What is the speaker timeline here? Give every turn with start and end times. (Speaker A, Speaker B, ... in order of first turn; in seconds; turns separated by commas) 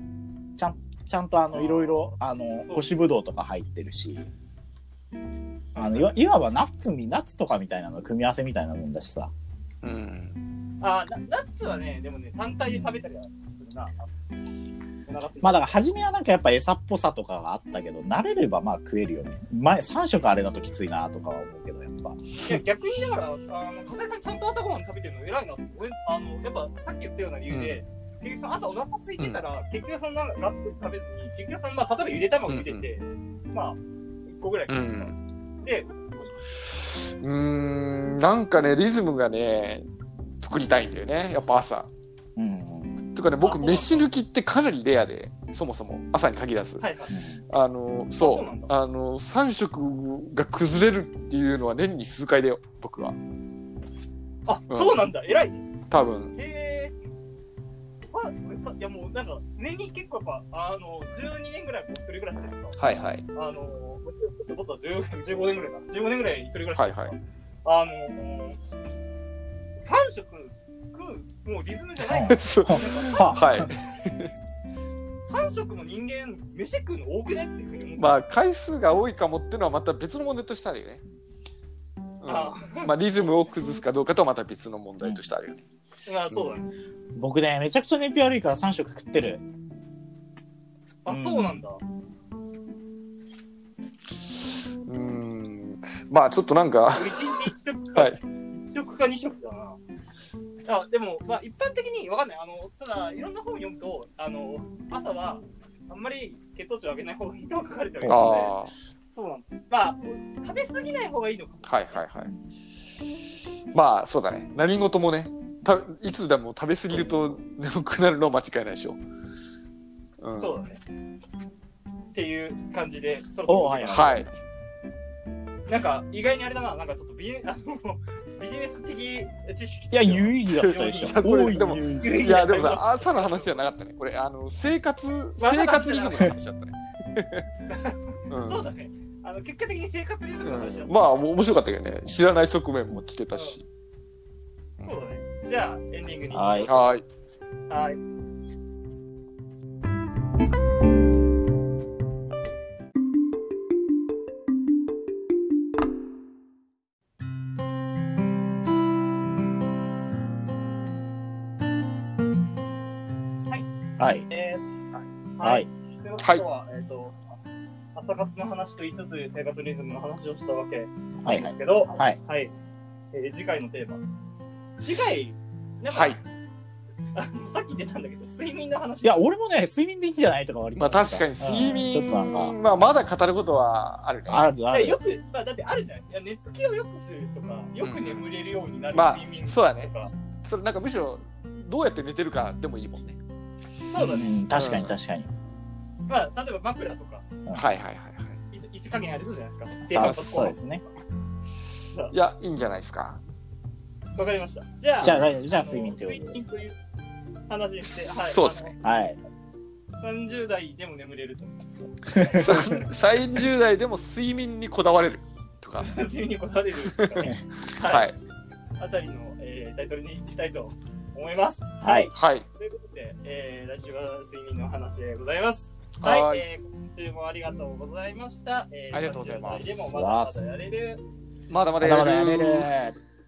Speaker A: 0.6-4.3, Speaker B: 1.5-2.1, Speaker B: 5.7-6.2, Speaker A: 5.8-9.3, Speaker C: 9.8-10.4, Speaker B: 10.8-14.1, Speaker B: 15.1-15.8, Speaker A: 15.4-22.2, Speaker B: 22.4-36.3, Speaker C: 27.5-27.8, Speaker C: 32.5-32.8, Speaker C: 34.7-35.1, Speaker C: 36.7-39.9, Speaker C: 40.4-41.9, Speaker A: 42.4-43.0, Speaker C: 43.1-46.9, Speaker B: 43.4-44.0, Speaker B: 46.8-47.1, Speaker A: 47.1-47.4, Speaker C: 47.5-53.2, Speaker B: 48.2-48.7, Speaker B: 54.5-55.7, Speaker C: 54.7-55.0, Speaker C: 55.9-56.3, Speaker B: 56.4-56.9, Speaker B: 58.1-62.8, Speaker C: 62.8-63.2, Speaker B: 63.3-68.6, Speaker C: 66.7-67.1, Speaker B: 69.8-73.4, Speaker A: 72.1-73.7, Speaker C: 72.2-74.3, Speaker B: 75.2-78.3, Speaker C: 78.0-81.0, Speaker C: 82.2-85.6, Speaker B: 82.2-83.4, Speaker A: 85.0-85.2, Speaker B: 86.0-86.7, Speaker A: 87.2-89.4, Speaker B: 91.0-91.8, Speaker A: 91.1-91.6, Speaker C: 94.8-98.2, Speaker B: 96.9-99.8, Speaker B: 100.7-108.5, Speaker A: 108.0-108.3, Speaker C: 108.1-108.7, Speaker B: 109.1-112.0, Speaker C: 111.7-112.3, Speaker C: 113.7-119.0, Speaker C: 120.2-120.6, Speaker B: 120.4-120.8, Speaker B: 122.1-124.2, Speaker A: 123.5-124.3, Speaker C: 123.8-124.3, Speaker B: 125.7-133.6, Speaker A: 129.9-132.4, Speaker C: 130.5-137.4, Speaker B: 135.4-136.3, Speaker B: 137.7-141.5, Speaker C: 138.3-138.7, Speaker C: 140.4-143.6, Speaker B: 144.8-146.8, Speaker A: 146.3-146.7, Speaker C: 146.7-147.0, Speaker B: 147.7-148.0, Speaker A: 164.0-164.3, Speaker B: 164.3-167.2, Speaker A: 165.4-165.7, Speaker B: 167.9-172.5, Speaker A: 171.2-172.2, Speaker B: 173.1-174.0, Speaker B: 174.8-176.2, Speaker C: 175.9-176.2, Speaker B: 177.1-179.2, Speaker A: 179.0-182.6, Speaker C: 180.8-184.5, Speaker A: 184.3-185.0, Speaker B: 184.7-190.1, Speaker C: 187.8-188.3, Speaker C: 188.9-193.2, Speaker B: 193.8-194.4, Speaker A: 194.0-195.3, Speaker C: 194.5-194.9, Speaker B: 196.1-197.3, Speaker C: 197.5-198.4, Speaker B: 198.5-200.6, Speaker A: 199.9-200.8, Speaker C: 199.9-200.5, Speaker C: 202.1-203.2, Speaker B: 204.2-206.8, Speaker A: 205.0-206.4, Speaker B: 207.5-208.8, Speaker C: 208.0-208.7, Speaker A: 208.8-209.2, Speaker B: 210.0-212.5, Speaker A: 212.1-212.8, Speaker C: 212.4-216.0, Speaker B: 215.8-218.1, Speaker C: 216.9-218.2, Speaker B: 218.8-231.0, Speaker A: 221.8-222.1, Speaker C: 222.1-222.4, Speaker C: 226.0-226.4, Speaker C: 228.9-229.7, Speaker A: 229.7-230.5, Speaker C: 231.5-232.7, Speaker A: 231.8-232.9